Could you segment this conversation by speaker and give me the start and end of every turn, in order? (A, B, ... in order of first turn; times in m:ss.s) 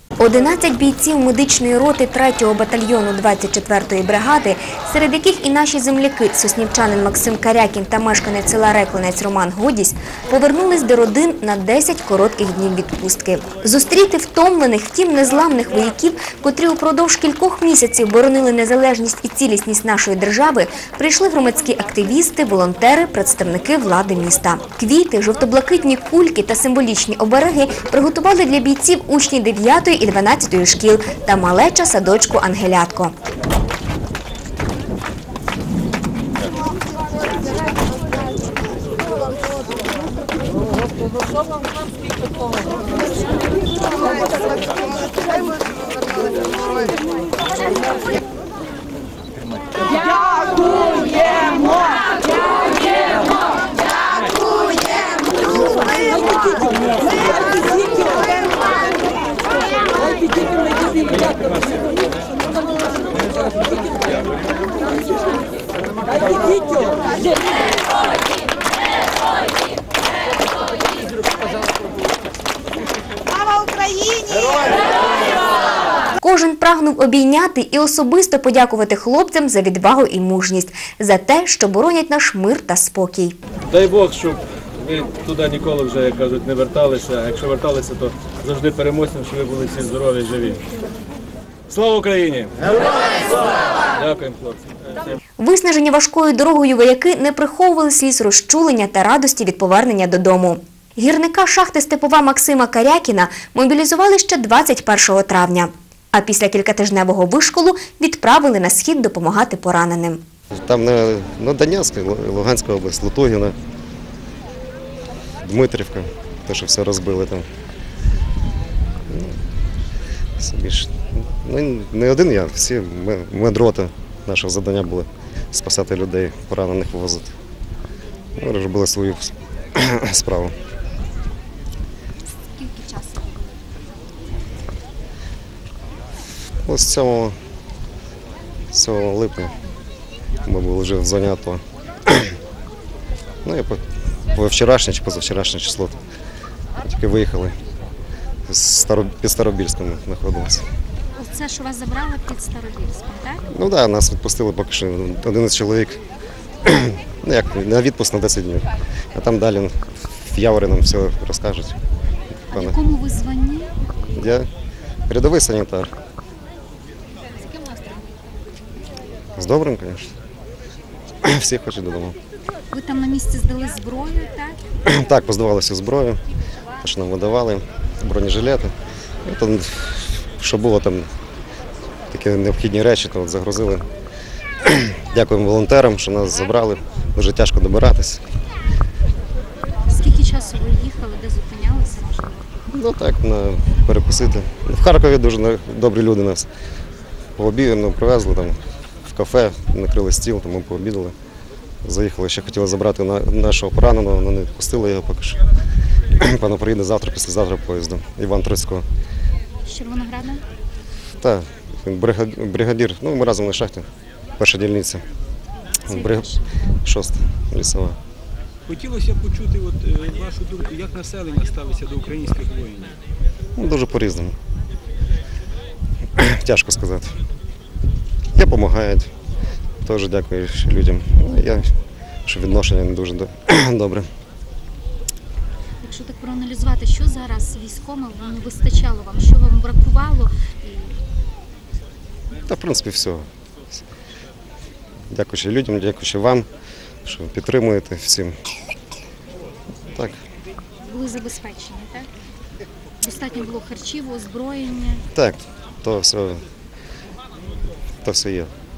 0:00.2-0:33.1 A
1:16.2-1:23.4 A
1:23.7-1:30.6 B
1:31.7-1:33.1 B
1:33.9-1:34.6 B
1:35.4-1:50.2 A
1:50.5-1:53.6 C
1:55.4-1:57.5 C
1:59.1-1:59.4 C
2:00.4-2:07.3 C
2:08.4-2:10.6 C
2:12.5-2:13.6 D
2:16.7-2:17.4 C
2:18.7-2:19.6 C
2:20.4-2:22.4 C
2:23.4-2:26.0 C
2:26.8-2:27.6 C
2:28.5-2:30.7 C
2:31.2-2:33.4 D
2:33.5-2:36.0 C
2:36.6-2:41.8 C
2:42.5-2:43.8 D
2:42.5-2:42.8 C
2:44.1-2:44.5 C
2:45.1-2:45.9 C
2:47.5-2:48.0 D
2:49.4-2:50.1 C
2:51.2-2:52.2 C
2:52.7-2:54.6 D
2:54.8-2:56.2 C
2:56.8-2:58.7 C
2:59.2-3:01.1 C
3:02.1-3:03.9 C
3:04.6-3:08.2 C
3:09.9-3:12.5 D
3:12.7-3:16.5 C
3:17.4-3:21.2 C
3:21.8-3:25.4 C
3:26.2-3:28.9 C
3:29.6-3:30.4 D
3:31.2-3:33.9 C
3:34.4-3:35.0 C
3:35.8-3:36.6 D
3:35.9-3:36.3 C
3:36.8-3:38.0 C
3:38.7-3:42.9 E
3:43.6-3:44.4 C
3:46.2-3:47.2 C
3:48.4-3:49.1 C
3:49.8-3:51.7 C
3:52.3-3:54.1 C
3:55.8-4:01.0 D
4:02.5-4:03.3 C
4:05.1-4:06.5 C
4:07.0-4:08.4 C
4:10.8-4:12.1 D
4:13.0-4:15.0 D
4:15.1-4:16.4 C
4:18.0-4:18.5 C